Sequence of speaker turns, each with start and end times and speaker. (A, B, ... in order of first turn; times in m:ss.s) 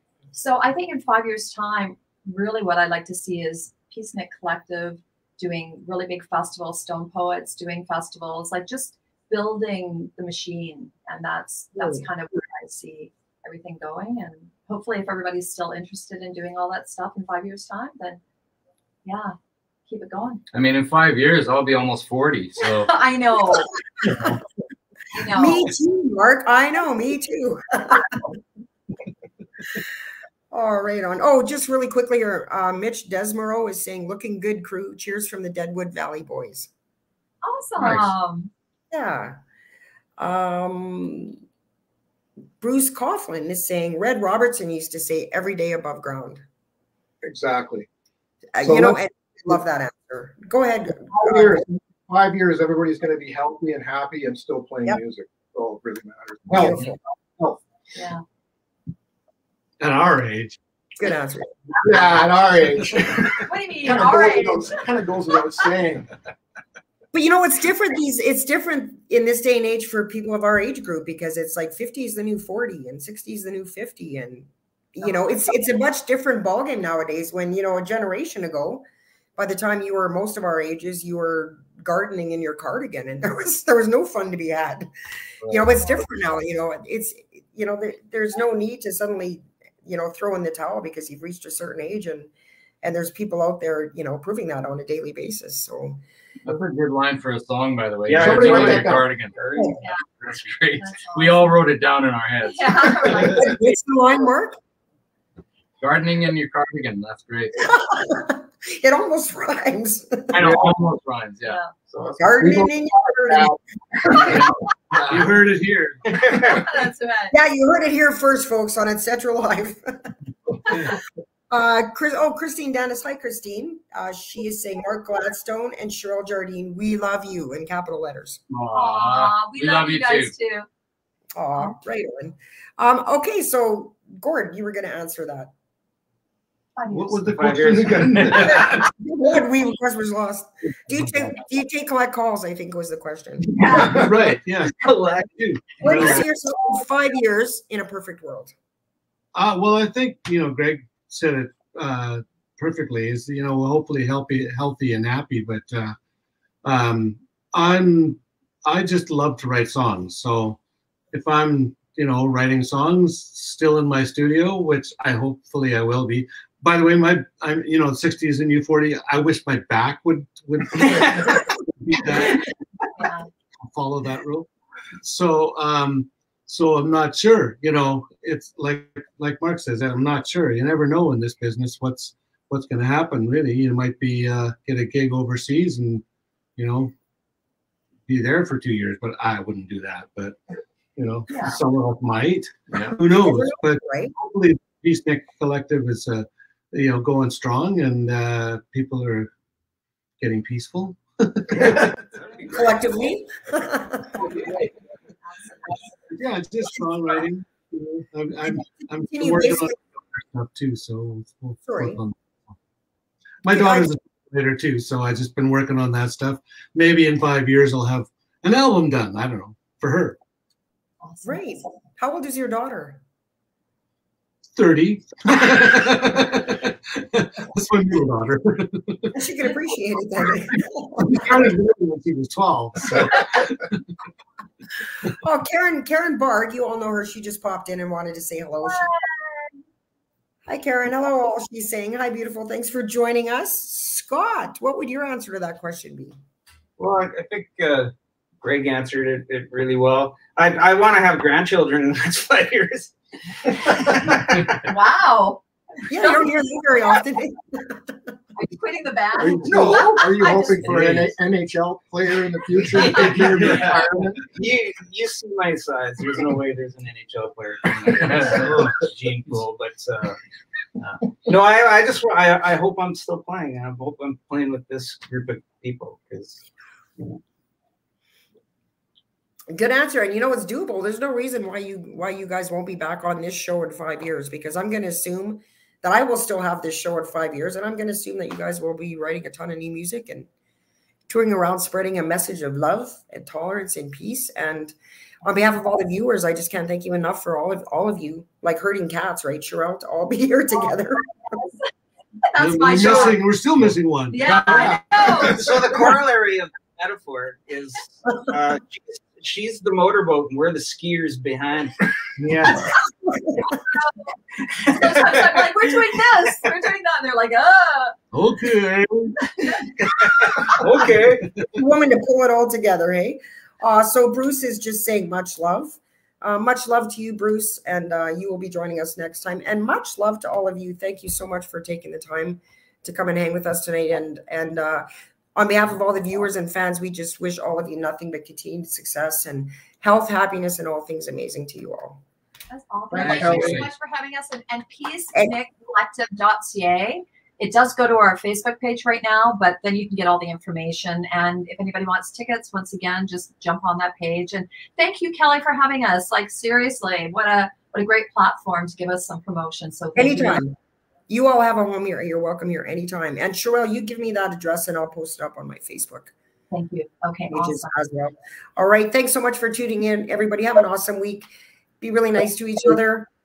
0:00.3-0:18.2 A
0:11.8-0:12.0 B
0:19.0-0:19.4 A
0:19.9-0:20.4 A
0:20.5-0:22.9 C
0:22.6-0:23.7 A
0:24.0-0:24.4 B
0:25.1-0:25.7 A
0:25.3-0:28.2 B
0:30.5-0:36.7 B
0:37.4-0:38.5 A
0:38.9-0:39.4 B
0:40.2-0:41.4 B
0:42.6-0:46.4 B
0:47.2-0:47.9 D
0:48.6-0:51.6 B
0:48.6-0:49.0 D
0:51.1-0:57.6 D
0:56.5-0:57.0 B
0:58.0-0:58.2 A
0:59.8-1:00.6 E
1:01.0-1:01.9 B
1:01.8-1:06.1 D
1:03.4-1:04.8 A
1:07.1-1:18.8 B
1:15.0-1:15.4 A
1:19.4-1:24.9 B
1:25.4-1:32.3 B
1:32.8-1:36.0 B
1:36.5-1:43.0 C
1:38.1-1:39.8 F
1:38.1-1:39.1 D
1:40.8-1:41.6 A
1:42.4-1:43.6 A
1:43.0-1:44.6 B
1:45.8-1:47.7 C
1:47.6-1:50.6 B
1:50.3-1:51.6 C
1:51.4-1:51.7 A
1:51.9-1:53.6 D
1:52.2-1:54.4 B
1:54.3-1:55.3 C
1:55.0-1:56.1 E
1:56.2-1:56.6 F
1:56.4-1:57.4 A
1:57.3-2:00.1 B
2:01.5-2:08.4 B
2:08.5-2:10.3 C
2:08.7-2:10.7 A
2:11.4-2:15.5 B
2:16.8-2:17.3 A
2:16.9-2:18.8 E
2:17.3-2:18.7 F
2:17.6-2:18.6 D
2:18.4-2:24.0 B
2:23.6-2:26.2 E
2:23.6-2:24.0 A
2:24.8-2:25.3 F
2:25.8-2:26.2 F
2:25.8-2:28.5 B
2:29.3-2:36.0 E
2:36.6-2:40.6 E
2:41.1-2:52.5 E
2:53.0-2:53.3 A
2:53.7-2:54.5 E
2:55.0-3:06.0 E
3:06.6-3:06.9 E
3:08.1-3:10.4 E
3:11.0-3:19.3 E
3:11.3-3:11.6 A
3:12.7-3:13.0 C
3:13.0-3:14.1 B
3:20.2-3:21.9 E
3:22.4-3:24.2 B
3:24.3-3:26.0 A
3:26.1-3:32.2 E
3:28.5-3:29.7 B
3:31.7-3:32.0 B
3:33.4-3:40.2 E
3:33.5-3:33.9 B
3:41.0-3:41.4 A
3:41.2-3:43.0 B
3:44.5-3:49.2 E
3:49.2-3:51.5 B
3:51.0-3:53.8 E
3:55.2-3:58.9 B
3:58.6-3:59.5 A
4:00.5-4:06.2 B
4:06.8-4:14.6 F
4:14.6-4:15.4 A
4:15.9-4:17.9 B
4:16.0-4:16.2 A
4:18.4-4:20.6 A
4:19.2-4:24.3 D
4:19.4-4:20.0 B
4:20.7-4:21.0 E
4:23.4-4:23.8 F
4:24.3-4:30.2 F
4:27.9-4:28.7 C
4:31.2-4:36.4 F
4:39.5-4:50.3 B
4:51.1-5:01.1 B
5:00.6-5:01.7 A
5:02.2-5:03.2 A
5:02.4-5:05.5 E
5:04.1-5:05.4 A
5:04.4-5:05.7 D
5:05.2-5:11.9 F
5:12.2-5:12.8 E
5:13.1-5:13.4 B
5:13.6-5:17.9 A
5:14.6-5:15.4 F
5:18.1-5:19.3 E
5:19.4-5:20.5 A
5:20.4-5:21.2 F
5:21.6-5:42.0 B
5:42.5-6:00.4 A
5:42.9-5:43.6 B
5:43.0-5:43.7 C
6:00.0-6:00.6 B
6:01.1-6:06.1 B
6:06.5-6:07.7 A
6:07.3-6:11.3 B
6:11.8-6:13.1 B